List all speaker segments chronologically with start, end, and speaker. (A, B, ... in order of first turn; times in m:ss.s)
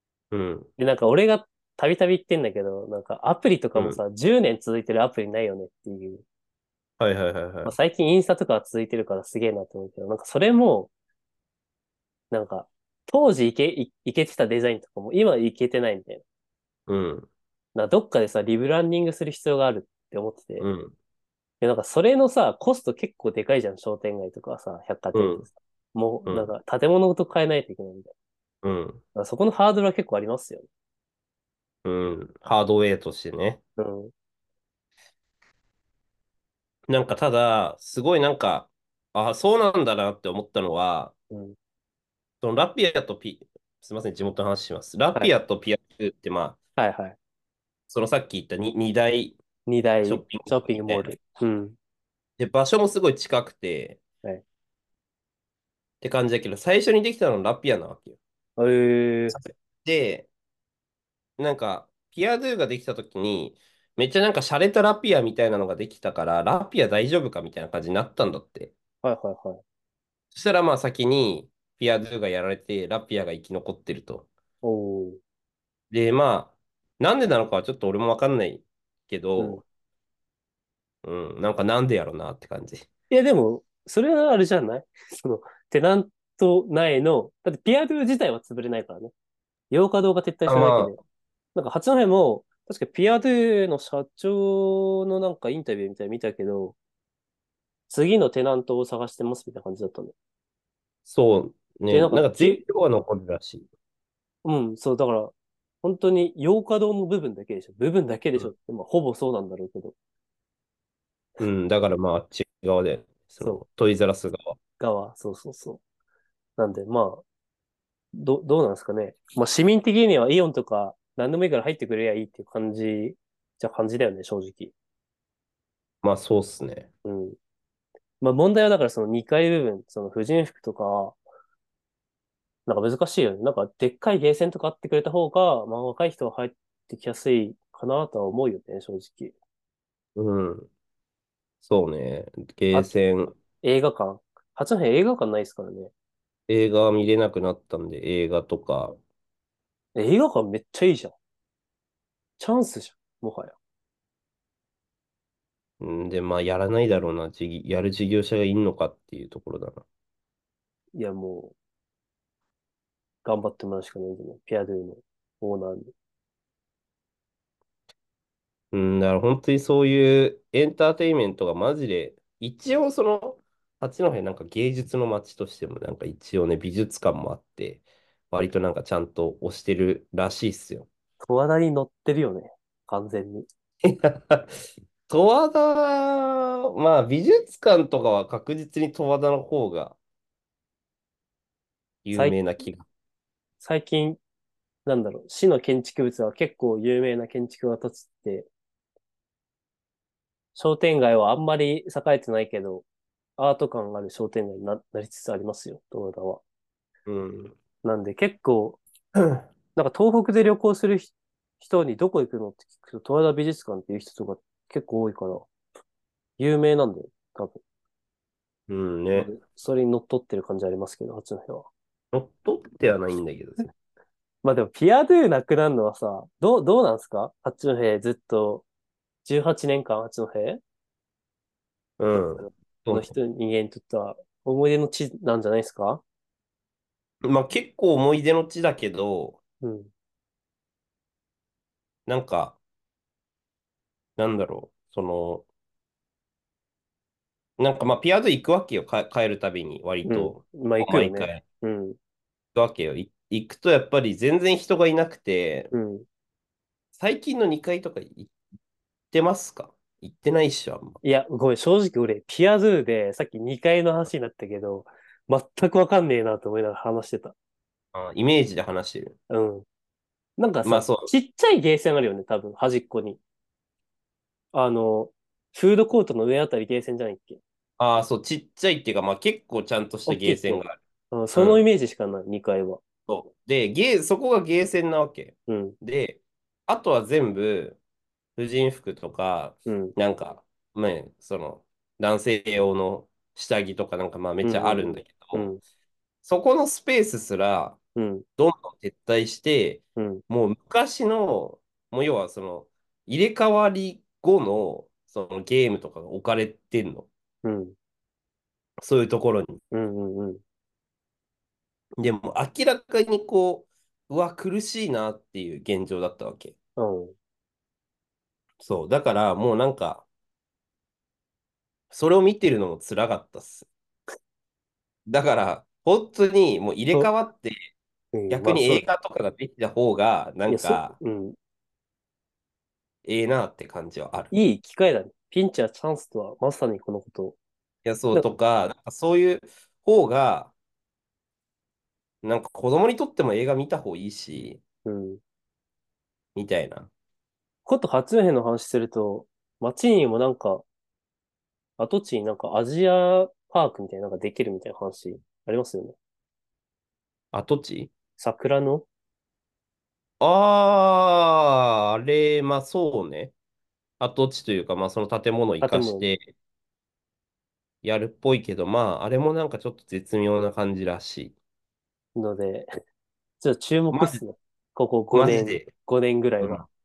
0:00.3-0:00.7 A
0:00.8-0:06.2 B
0:03.8-0:04.0 A
0:07.0-0:07.8 A
0:07.6-0:10.9 B
0:12.3-0:16.2 B
0:16.9-0:17.3 A
0:17.8-0:20.7 B
0:20.6-0:21.0 A
0:21.6-0:28.1 B
0:25.1-0:25.4 A
0:26.3-0:26.5 A
0:28.6-0:29.0 A
0:29.2-0:30.7 B
0:31.8-0:33.6 A
0:33.8-0:34.1 B
0:36.9-0:41.1 A
0:41.3-0:41.6 B
0:42.4-0:46.6 A
0:46.8-0:47.2 B
0:47.9-0:49.4 A
0:49.7-0:51.8 B
0:50.0-0:51.2 A
0:52.4-0:54.0 A
0:56.0-0:58.2 A
0:58.6-0:59.4 B
0:59.3-1:00.3 A
1:01.4-1:08.7 A
1:09.0-1:09.6 B
1:10.3-1:14.3 A
1:14.6-1:15.2 B
1:15.9-1:19.6 A
1:19.4-1:19.6 B
1:21.0-1:22.9 A
1:23.1-1:29.1 B
1:29.7-1:31.0 B
1:30.5-1:30.9 A
1:31.6-1:36.8 B
1:37.9-1:40.1 B
1:41.1-1:43.7 A
1:41.9-1:42.6 B
1:44.4-1:50.0 B
1:51.4-1:54.6 A
1:54.8-1:55.8 B
1:56.6-1:57.2 B
1:58.1-2:04.7 B
2:06.0-2:06.9 A
2:07.0-2:07.4 B
2:08.2-2:11.2 B
2:12.7-2:19.3 B
2:20.2-2:20.7 A
2:21.6-2:23.4 A
2:23.6-2:25.9 B
2:26.5-2:29.0 A
2:30.0-2:31.2 B
2:32.4-2:33.6 B
2:35.8-2:39.8 A
2:41.0-2:41.6 B
2:43.2-2:45.9 B
2:48.7-3:00.9 A
3:01.2-3:03.5 B
3:03.8-3:10.0 A
3:12.0-3:12.8 A
3:12.1-3:12.4 B
3:13.6-3:14.2 B
3:14.9-3:18.5 B
3:20.6-3:22.9 B
3:23.4-3:26.4 B
3:27.1-3:27.6 A
3:27.8-3:28.8 B
3:29.8-3:35.5 B
3:36.4-3:37.6 B
3:38.7-3:39.3 A
3:39.1-3:41.7 B
3:42.1-3:43.7 A
3:44.4-3:48.7 B
3:49.2-3:50.6 B
3:52.0-3:53.2 A
3:52.1-3:56.0 B
3:57.2-3:59.4 A
3:59.6-3:59.9 B
4:02.1-4:02.6 A
4:04.2-4:05.5 A
4:07.6-4:11.4 A
4:10.0-4:12.0 B
4:12.6-4:15.7 A
4:15.7-4:16.1 B
4:16.9-4:18.3 A
4:19.1-4:21.0 A
4:21.0-4:27.4 B
4:27.9-4:29.2 A
4:29.3-4:29.7 B
4:30.4-4:33.2 B
4:30.6-4:31.1 A
4:34.5-4:37.4 B
4:37.8-4:40.8 A
4:40.1-4:42.8 B
4:41.3-4:41.6 A
4:43.1-4:47.8 A
4:45.5-4:45.8 B
4:48.4-4:55.5 A
4:49.7-4:50.0 B
4:54.4-4:55.6 B
4:56.2-4:57.8 A
4:58.0-4:58.2 B
4:58.4-5:07.1 A
5:00.0-5:00.2 B
5:07.4-5:07.8 B
5:08.8-5:09.6 A
5:09.7-5:10.4 B
5:12.0-5:16.6 A
5:16.8-5:17.1 B
5:18.6-5:20.1 A
5:21.9-5:23.7 A
5:25.1-5:27.7 A
5:28.1-5:28.9 B
5:28.3-5:31.0 A
5:30.5-5:31.4 B
5:33.0-5:34.3 A
5:34.3-5:37.4 B
5:37.8-5:40.5 A
5:42.2-5:44.6 A
5:44.8-5:45.2 B
5:46.4-5:46.9 A
5:47.7-5:50.6 B
5:51.8-5:56.0 B
5:57.3-5:57.9 A
5:58.2-5:58.9 B
6:00.2-6:03.3 A
6:04.0-6:06.3 A
6:05.6-6:06.1 B
6:07.8-6:11.4 A
6:12.2-6:12.7 B
6:13.4-6:16.6 B
6:13.9-6:14.2 A
6:15.1-6:15.7 A
6:16.4-6:16.7 A